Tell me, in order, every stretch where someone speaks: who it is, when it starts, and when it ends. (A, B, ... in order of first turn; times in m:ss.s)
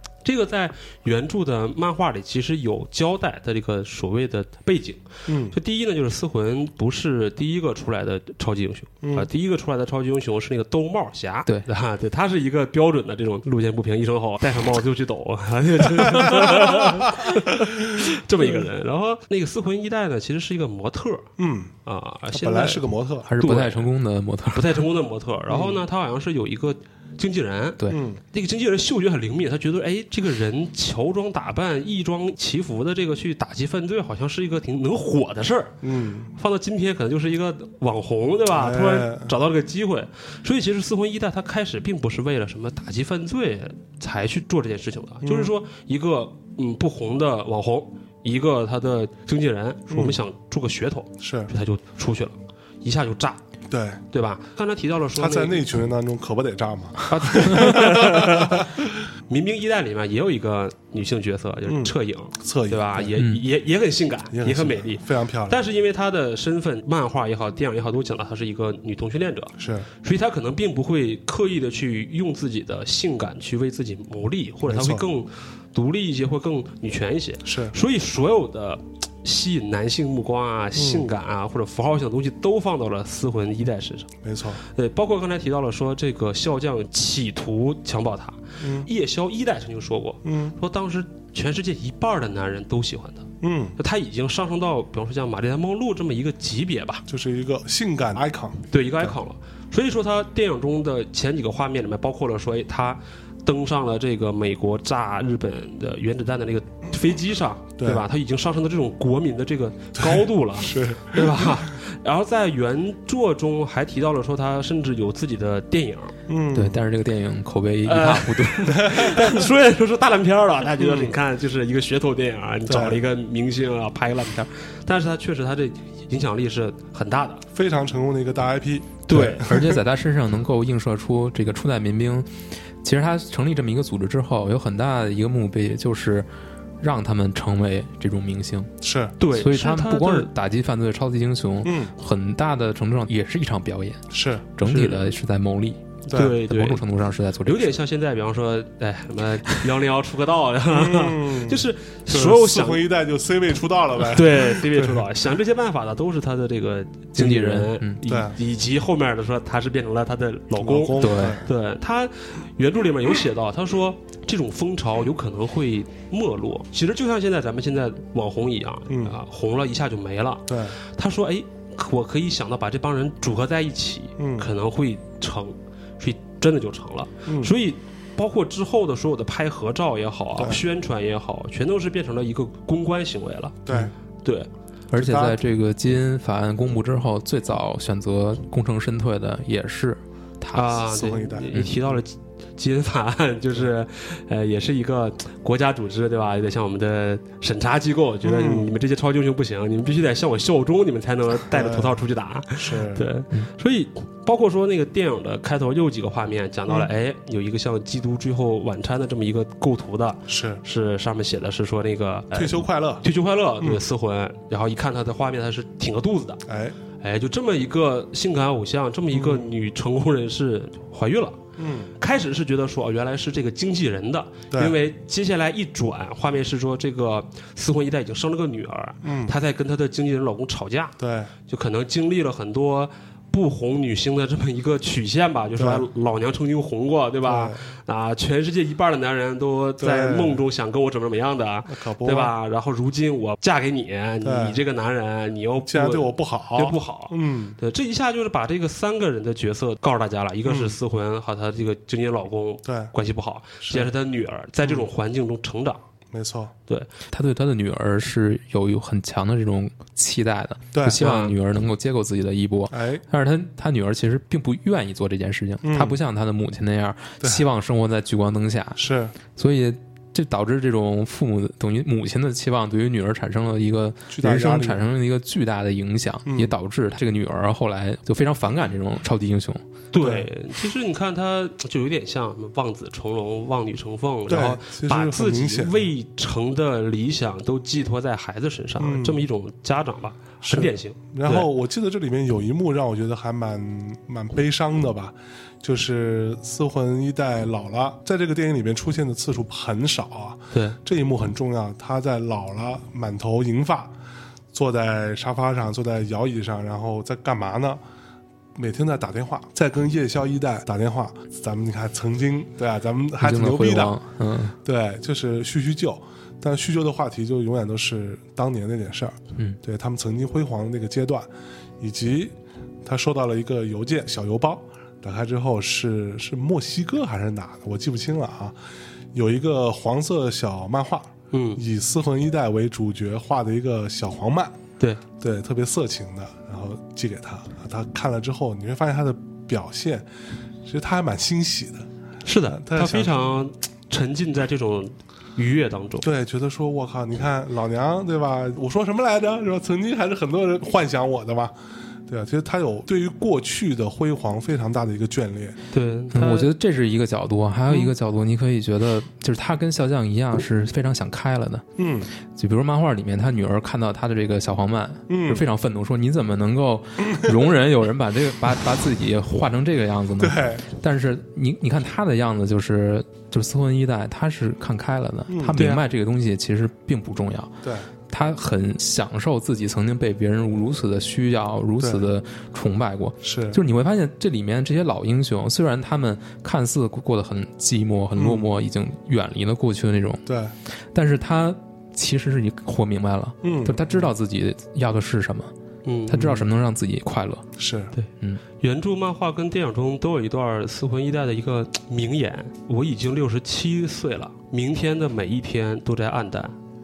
0:00.2-0:21.3 A
0:05.3-0:05.6 B
0:09.0-0:09.3 B
0:16.0-0:18.0 B
0:21.4-0:21.7 B
0:21.8-0:22.9 A
0:22.3-0:23.3 B
0:23.2-0:24.8 C
0:23.4-0:23.9 A
0:24.5-0:35.8 A
0:25.5-0:25.8 B
0:27.9-0:28.2 B
0:35.8-0:36.3 B
0:36.4-0:53.4 A
0:38.5-0:39.3 B
0:45.2-0:45.5 B
0:49.9-0:50.2 B
0:51.2-0:51.5 B
0:53.7-0:54.0 B
0:54.1-0:55.7 A
0:55.2-0:58.9 B
0:57.1-0:58.7 A
0:59.3-1:24.1 A
1:01.6-1:03.1 B
1:03.2-1:03.4 C
1:04.3-1:05.6 B
1:09.6-1:09.9 B
1:14.6-1:15.1 B
1:17.4-1:17.7 B
1:20.8-1:21.1 B
1:24.2-1:24.6 B
1:24.7-1:37.0 A
1:28.6-1:28.9 B
1:30.2-1:30.5 B
1:33.4-1:33.8 B
1:37.1-1:39.2 B
1:38.7-1:56.1 A
1:47.8-1:48.0 B
1:50.0-1:51.7 B
1:56.3-1:56.8 B
1:56.5-1:59.1 C
1:57.8-2:07.4 A
1:58.7-1:59.4 B
2:00.8-2:01.2 B
2:02.7-2:03.0 B
2:07.5-2:09.8 B
2:09.1-2:09.5 A
2:09.1-2:12.3 C
2:12.8-2:16.3 C
2:16.8-2:18.7 C
2:18.8-2:19.1 B
2:19.2-2:20.3 A
2:19.3-2:24.0 C
2:21.6-2:21.9 B
2:24.1-2:24.4 B
2:24.6-2:25.8 C
2:24.6-2:25.1 A
2:26.1-2:26.4 B
2:26.1-2:26.8 A
2:26.5-2:27.7 C
2:27.4-2:32.9 A
2:30.7-2:35.1 B
2:34.0-3:04.5 A
2:37.2-2:38.0 C
2:38.0-2:38.4 B
2:40.6-2:41.5 B
2:41.0-2:41.4 C
2:48.9-2:49.2 B
2:50.5-2:50.8 B
2:54.2-2:54.5 B
2:57.2-2:57.5 B
3:00.4-3:00.6 B
3:03.6-3:03.9 B
3:04.9-3:10.8 C
3:04.9-3:05.4 B
3:10.5-3:36.4 A
3:10.9-3:11.6 B
3:18.2-3:18.7 B
3:21.5-3:22.0 B
3:22.5-3:23.1 B
3:30.3-3:30.6 B
3:32.3-3:33.0 B
3:36.4-3:36.8 B
3:37.0-3:41.4 A
3:39.1-3:39.5 B
3:41.6-3:41.9 B
3:42.0-3:51.0 A
3:44.5-3:44.8 B
3:49.0-3:49.3 B
3:51.0-3:51.3 B
3:51.5-4:15.8 A
3:55.6-3:55.9 B
3:57.2-3:57.7 B
3:59.8-4:00.4 B
4:01.6-4:02.3 B
4:04.2-4:04.6 B
4:05.6-4:07.6 B
4:10.4-4:10.8 B
4:12.6-4:12.9 B
4:13.6-4:13.9 B
4:16.1-4:16.5 B
4:17.1-4:28.8 C
4:20.7-4:21.0 B
4:20.9-4:21.4 A
4:22.7-4:23.0 B
4:25.6-4:26.0 B
4:28.8-4:29.1 B
4:29.3-4:39.6 C
4:34.1-4:34.8 B
4:36.3-4:36.5 B
4:39.9-4:51.5 A
4:40.0-4:40.3 B
4:44.3-4:45.9 B
4:48.8-4:49.2 B
4:50.4-5:03.9 B
5:00.5-5:00.8 A
5:04.5-5:07.8 B
5:08.6-5:14.0 B
5:13.2-5:14.5 C
5:14.6-5:21.3 B
5:21.8-5:28.6 B
5:29.1-5:34.6 B
5:31.3-5:31.6 A
5:35.2-5:40.1 B
5:40.6-5:41.9 B
5:42.2-5:46.1 A
5:42.5-5:43.2 B
5:46.0-5:51.5 B
5:52.1-5:55.6 B
5:55.7-5:56.5 A
5:56.1-6:01.6 C
6:01.8-6:02.1 B
6:02.3-6:17.5 C
6:05.1-6:05.4 B
6:07.0-6:07.5 B
6:10.2-6:10.6 B
6:15.3-6:15.6 B
6:15.6-6:15.8 A
6:17.6-6:17.9 B
6:18.1-6:30.2 C
6:21.8-6:22.1 B
6:23.2-6:23.6 B
6:28.2-6:28.5 B
6:30.2-6:30.5 B
6:30.9-6:35.5 C
6:33.4-6:34.0 B
6:35.8-6:36.4 A
6:36.1-6:37.4 C
6:37.6-6:37.9 B
6:38.6-6:46.5 A